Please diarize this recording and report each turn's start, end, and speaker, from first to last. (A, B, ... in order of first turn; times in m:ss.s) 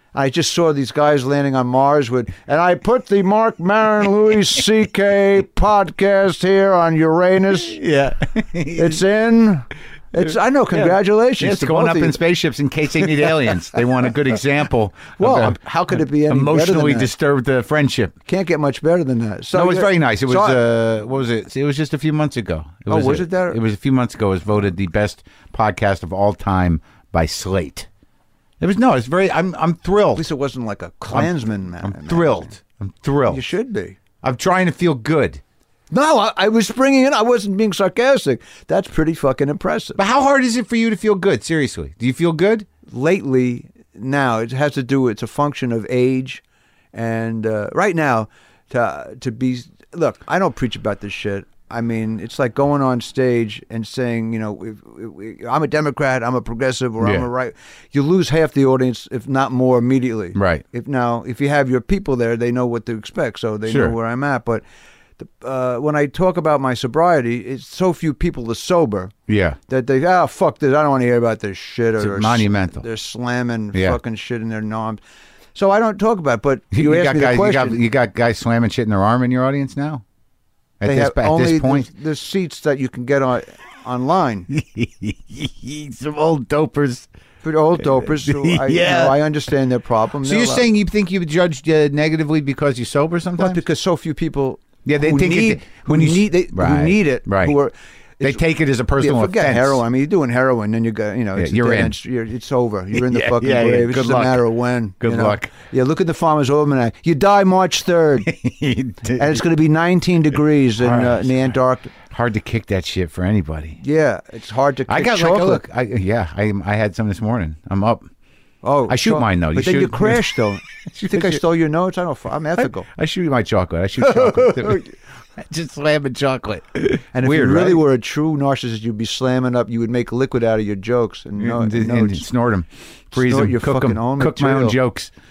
0:00.1-0:07.8 A
0:07.6-0:09.0 B
0:08.7-0:12.2 A
0:10.7-0:18.1 B
0:13.1-0:13.8 A
0:15.2-0:17.1 A
0:18.3-0:20.6 A
0:19.5-0:27.9 B
0:22.9-0:23.6 A
0:28.6-0:30.2 B
0:30.2-0:32.5 A
0:31.1-0:33.4 B
0:33.3-0:34.0 A
0:34.2-0:35.4 B
0:35.9-0:40.0 A
0:40.0-0:42.7 B
0:42.9-0:46.4 A
0:46.9-1:04.6 A
0:57.0-0:57.3 B
1:00.3-1:00.6 B
1:03.7-1:03.9 B
1:05.2-1:09.1 A
1:09.3-1:09.6 B
1:09.7-1:15.0 A
1:12.0-1:12.8 B
1:15.6-1:17.8 A
1:16.7-1:20.0 B
1:20.8-1:21.9 B
1:20.8-1:24.5 A
1:24.5-1:27.1 B
1:27.4-1:30.6 A
1:27.8-1:29.2 B
1:30.2-1:33.6 B
1:33.4-1:38.4 A
1:34.8-1:37.5 B
1:38.2-1:39.8 B
1:39.0-1:48.3 A
1:41.4-1:42.0 B
1:42.9-1:44.4 B
1:45.0-1:45.5 B
1:48.2-1:49.4 B
1:49.2-1:51.9 A
1:50.8-1:51.5 B
1:52.1-1:53.8 B
1:53.8-1:55.6 A
1:54.9-1:58.1 B
1:58.6-2:02.9 A
1:58.9-2:01.4 B
2:02.6-2:07.8 B
2:04.0-2:04.9 A
2:07.1-2:12.2 A
2:11.4-2:15.1 B
2:13.1-2:14.8 A